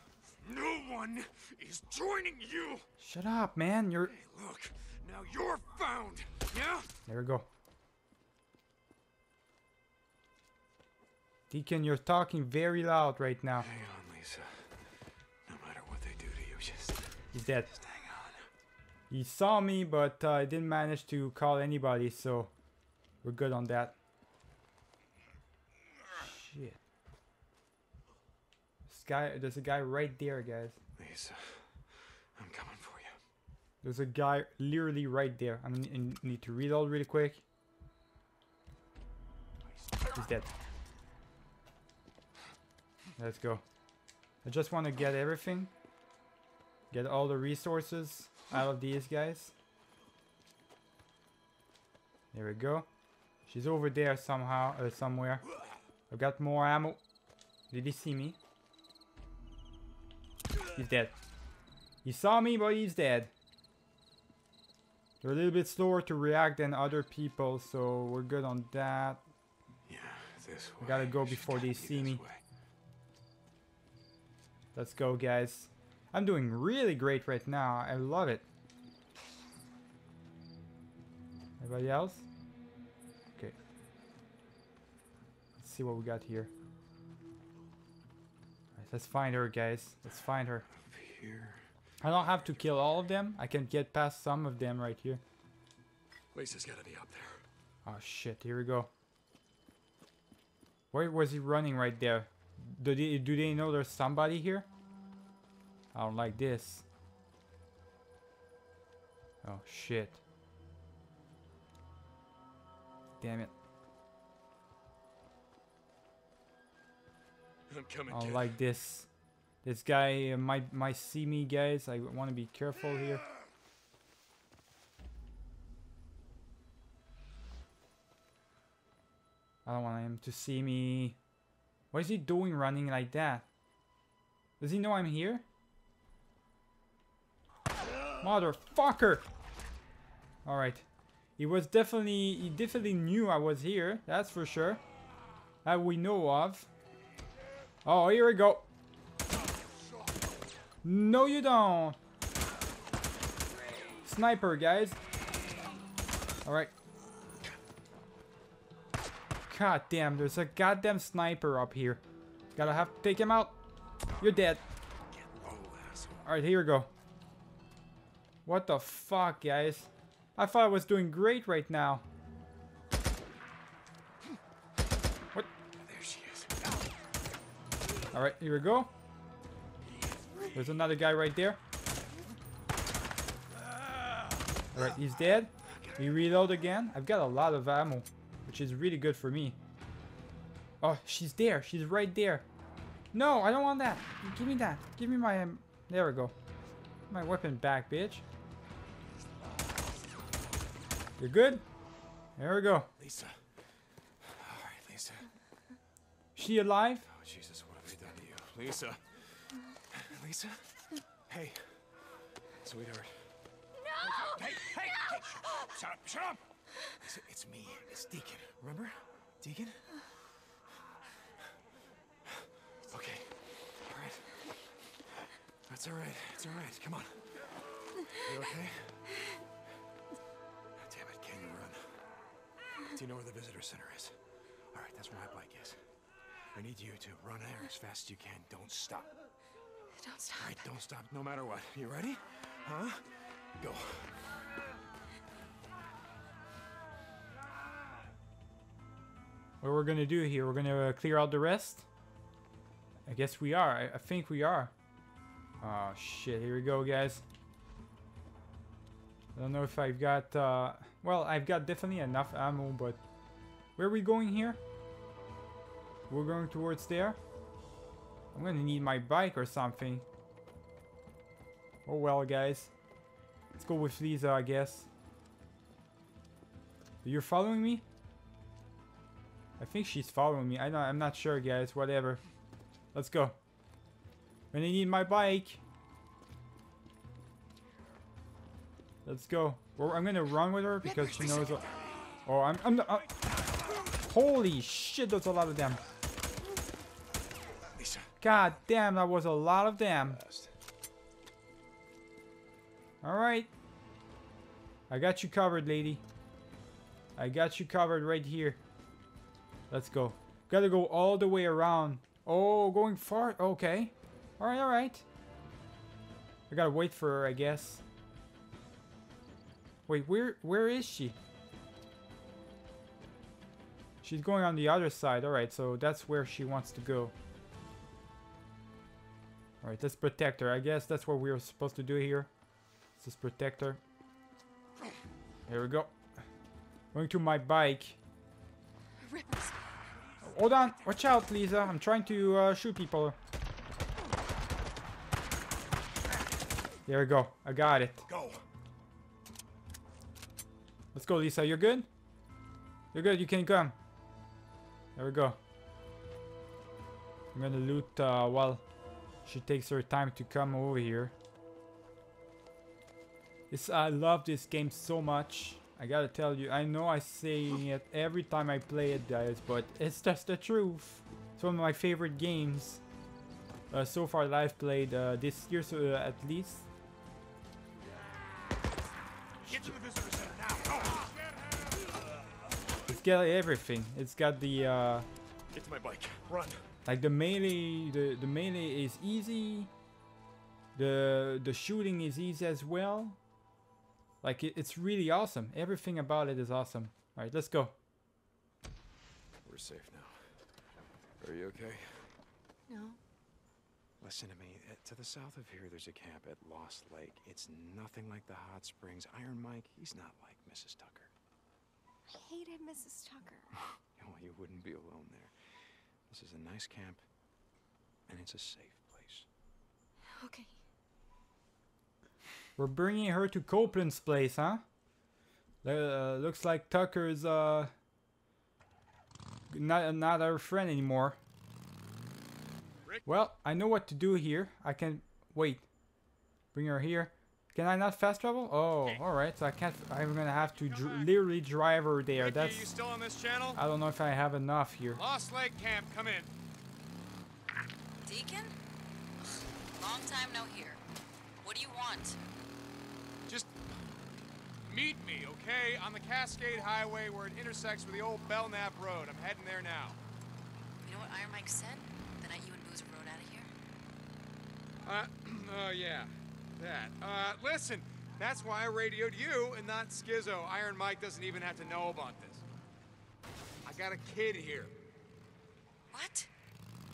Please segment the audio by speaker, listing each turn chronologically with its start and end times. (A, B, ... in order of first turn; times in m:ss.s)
0:00.4-0:02.9 A
0:03.0-0:04.1 B
0:04.0-0:06.9 A
0:07.1-0:07.5 B
0:11.5-0:13.7 B
0:13.6-0:18.5 A
0:17.3-0:17.8 B
0:19.1-0:22.5 B
0:23.2-0:24.0 B
0:26.2-0:26.8 B
0:28.9-0:30.8 B
0:31.0-0:33.2 A
0:33.8-0:37.4 B
0:39.7-0:40.2 A
0:40.1-0:40.5 B
0:43.2-0:43.6 B
0:44.4-0:45.7 B
0:46.9-0:49.5 B
0:52.3-0:52.9 B
0:53.5-0:55.5 B
0:56.1-0:57.0 B
0:57.7-0:58.4 B
1:00.7-1:01.2 B
1:02.0-1:03.3 B
1:05.2-1:09.2 B
1:09.9-1:12.4 A
1:10.8-1:12.2 B
1:14.8-1:18.4 B
1:21.6-1:22.3 B
1:25.6-1:26.5 B
1:28.8-1:30.7 B
1:30.7-1:32.8 A
1:32.0-1:35.2 B
1:36.3-1:37.4 A
1:37.8-1:38.9 B
1:40.9-1:44.7 B
1:45.9-1:46.8 B
1:49.4-1:50.2 B
1:53.2-1:53.5 B
1:57.7-1:58.5 A
1:58.1-1:59.1 B
1:59.6-2:03.2 B
2:09.7-2:11.2 B
2:11.9-2:13.5 B
2:14.6-2:15.4 B
2:18.2-2:19.3 B
2:20.4-2:20.9 B
2:21.4-2:24.8 B
2:25.6-2:26.7 B
2:27.8-2:28.7 B
2:30.8-2:32.0 B
2:34.0-2:35.0 B
2:36.4-2:36.7 B
2:39.5-2:42.0 B
2:42.6-2:43.6 B
2:44.2-2:44.6 B
2:45.1-2:46.3 A
2:46.2-2:46.9 B
2:48.4-2:52.0 B
2:55.8-2:56.7 A
2:58.1-2:58.9 B
3:00.5-3:01.6 B
3:03.7-3:04.2 A
3:04.7-3:09.6 B
3:05.6-3:06.2 A
3:10.8-3:12.5 B
3:13.1-3:16.3 B
3:17.1-3:18.2 B
3:21.2-3:21.6 B
3:22.4-3:22.9 B
3:23.0-3:25.3 A
3:26.4-3:27.1 B
3:27.1-3:33.4 A
3:34.0-3:40.1 A
3:34.1-3:35.2 C
3:42.3-3:49.1 A
3:50.8-3:52.0 A
3:52.9-3:55.8 A
3:56.5-3:59.1 A
4:00.0-4:00.6 C
4:00.4-4:04.4 A
4:09.6-4:11.9 B
4:13.1-4:14.7 B
4:15.6-4:17.2 B
4:19.4-4:23.0 B
4:23.8-4:24.6 B
4:26.1-4:27.2 B
4:28.3-4:30.0 B
4:31.9-4:32.7 B
4:33.5-4:34.9 B
4:37.0-4:37.8 B
4:39.6-4:42.2 B
4:42.9-4:43.4 B
4:44.5-4:45.6 B
4:49.0-4:51.7 B
4:50.8-4:52.2 A
4:52.2-4:53.2 B
4:54.0-4:55.8 B
4:57.7-4:58.1 A
4:58.2-5:00.2 B
5:00.0-5:00.5 A
5:03.0-5:03.5 B
5:04.9-5:06.0 B
5:07.2-5:08.6 B
5:09.7-5:15.0 B
5:16.5-5:17.8 B
5:19.9-5:21.2 B
5:24.0-5:27.1 B
5:29.6-5:32.3 B
5:33.0-5:33.8 B
5:35.5-5:35.9 B
5:36.9-5:38.0 B
5:39.0-5:39.5 C
5:40.2-5:43.2 B
5:46.9-5:48.1 B
5:48.1-5:48.4 A
5:50.9-5:51.9 B
5:52.9-5:53.8 B
5:55.0-5:55.4 B
5:57.3-5:58.6 B
5:59.3-6:01.1 B
6:03.5-6:12.8 B
6:13.7-6:16.7 B
6:19.4-6:21.1 A
6:21.0-6:21.8 D
6:22.9-6:25.1 B
6:25.5-6:26.6 A
6:26.8-6:29.7 B
6:30.8-6:33.2 B
6:34.2-6:37.8 B
6:39.4-6:40.3 A
6:41.2-6:42.2 A
6:44.0-6:51.1 A
6:54.0-6:55.3 A
6:56.1-6:57.0 A
6:58.1-6:59.3 A
7:02.6-7:04.6 B
7:05.6-7:07.7 B
7:09.5-7:11.2 B
7:13.1-7:15.7 B
7:16.5-7:22.7 B
7:20.3-7:21.1 D
7:22.2-7:23.6 D
7:23.6-7:25.0 B
7:24.9-7:26.3 D
7:28.0-7:28.6 E
7:29.8-7:30.8 E
7:31.4-7:32.2 E
7:33.3-7:33.6 D
7:34.6-7:40.0 D
7:40.8-7:43.5 E
7:44.8-7:52.4 D
7:53.6-7:54.7 D
7:55.9-7:56.3 E